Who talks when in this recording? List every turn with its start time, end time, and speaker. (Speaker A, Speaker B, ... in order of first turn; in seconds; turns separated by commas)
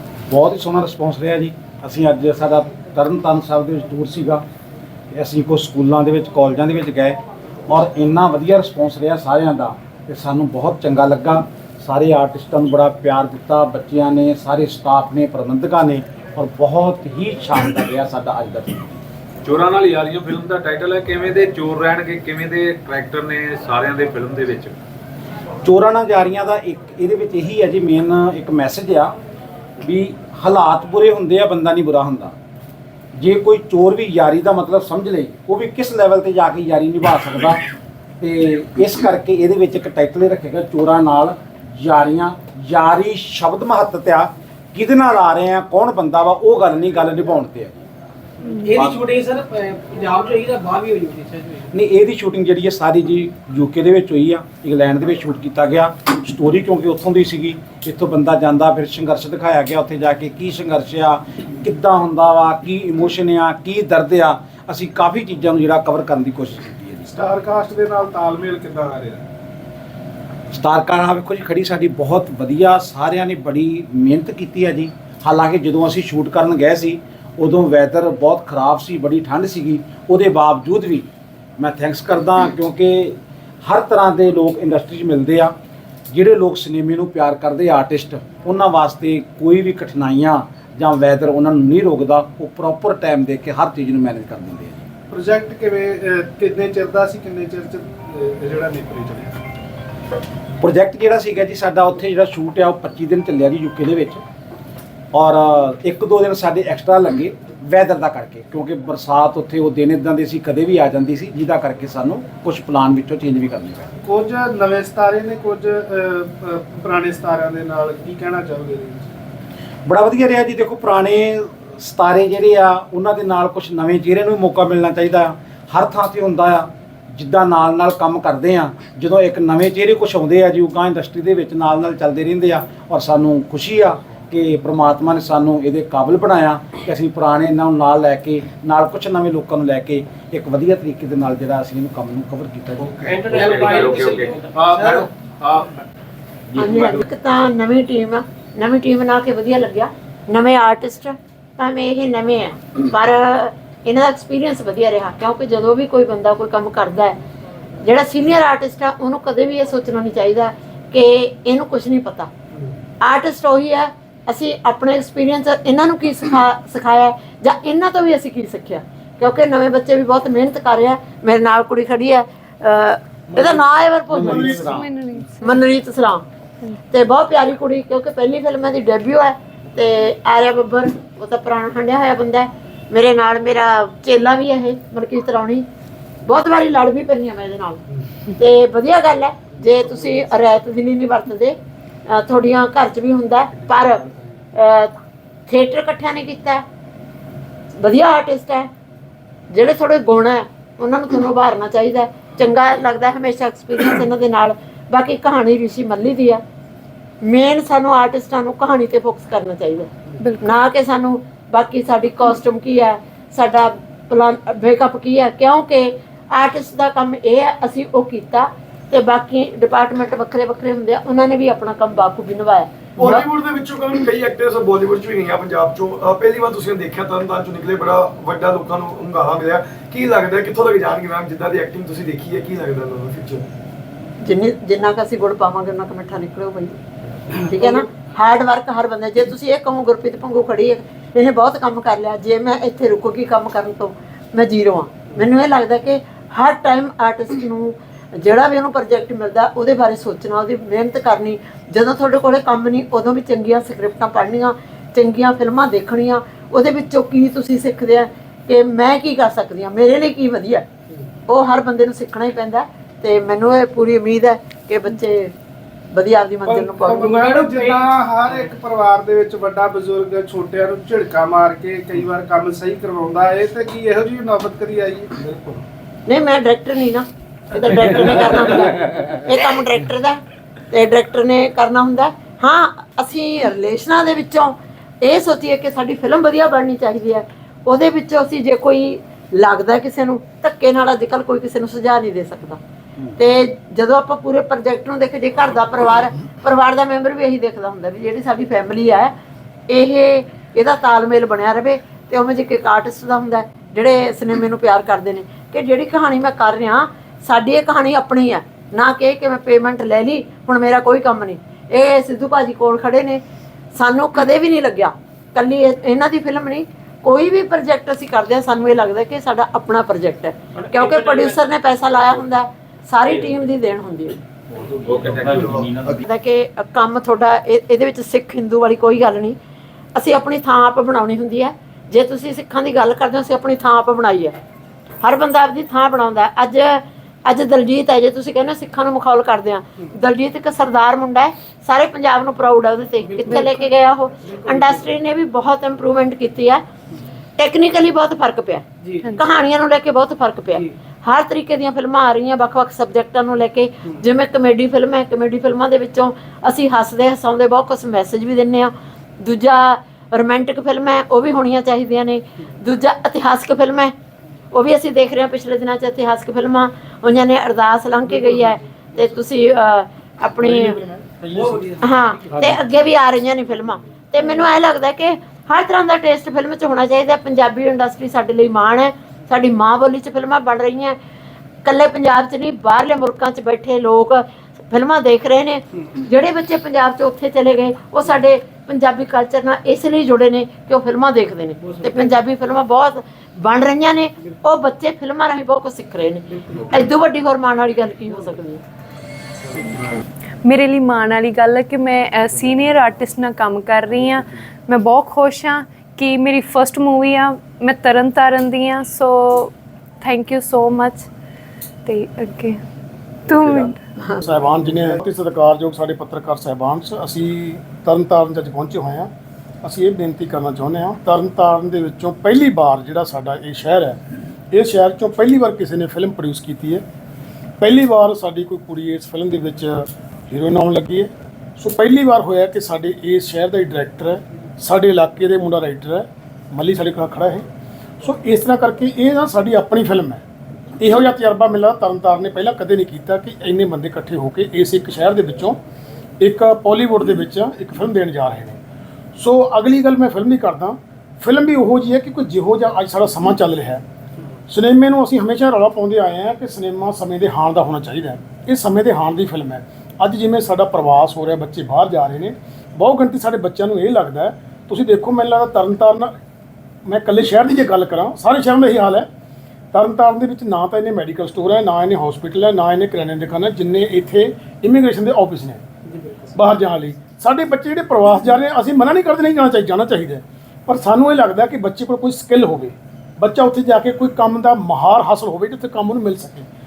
Speaker A: 0.3-4.4, Speaker A: 5.1-19.0, Speaker B: 19.4-24.8, Speaker A: 25.6-29.1, Speaker A: 29.8-32.3, Speaker A: 33.2-37.6, Speaker A: 38.2-47.8, Speaker C: 48.5-51.7, Speaker A: 48.7-49.1, Speaker A: 51.7-67.1, Speaker D: 67.1-69.2, Speaker A: 70.5-85.5, Speaker A: 86.1-94.8, Speaker D: 95.1-99.3, Speaker A: 100.6-104.2, Speaker A: 105.1-113.9, Speaker D: 114.0-119.2, Speaker A: 119.8-143.6, Speaker C: 143.1-145.1, Speaker B: 143.3-145.7, Speaker A: 146.5-147.0, Speaker E: 146.6-157.2, Speaker E: 157.8-162.3, Speaker E: 163.0-174.7, Speaker A: 174.1-174.9, Speaker F: 174.2-175.4, Speaker E: 175.4-176.2, Speaker E: 176.9-185.7, Speaker E: 186.2-187.8, Speaker E: 188.4-191.6, Speaker E: 192.1-194.0, Speaker E: 194.6-194.9, Speaker E: 195.5-196.6, Speaker E: 197.8-198.7, Speaker E: 199.5-206.4, Speaker E: 207.2-209.9, Speaker F: 210.2-210.5, Speaker E: 210.4-223.3, Speaker G: 223.0-233.4, Speaker E: 234.2-236.8, Speaker E: 237.3-260.7, Speaker E: 261.3-265.3, Speaker E: 265.9-267.2, Speaker D: 266.4-275.6, Speaker C: 267.1-267.9, Speaker E: 276.1-280.2, Speaker E: 280.7-292.6, Speaker E: 293.1-299.1, Speaker E: 299.7-313.2, Speaker E: 313.7-324.2, Speaker G: 324.6-326.0, Speaker B: 324.8-325.7, Speaker E: 326.0-329.4, Speaker E: 329.9-334.3, Speaker E: 335.0-346.6, Speaker C: 343.1-343.3, Speaker C: 344.4-344.8, Speaker E: 347.4-363.9, Speaker E: 364.5-370.8, Speaker H: 370.6-371.6, Speaker C: 371.2-372.2, Speaker E: 371.8-380.9, Speaker E: 381.6-398.6, Speaker F: 400.4-411.1, Speaker F: 411.8-412.6, Speaker F: 413.2-413.8, Speaker H: 414.2-419.1, Speaker H: 419.6-424.0, Speaker H: 424.5-426.8, Speaker H: 427.6-437.4, Speaker H: 438.0-440.2, Speaker H: 440.8-445.6, Speaker H: 446.2-448.6, Speaker H: 449.2-453.8, Speaker H: 454.5-466.1, Speaker H: 466.9-469.1, Speaker H: 469.7-475.6, Speaker C: 475.9-476.4, Speaker H: 476.3-486.5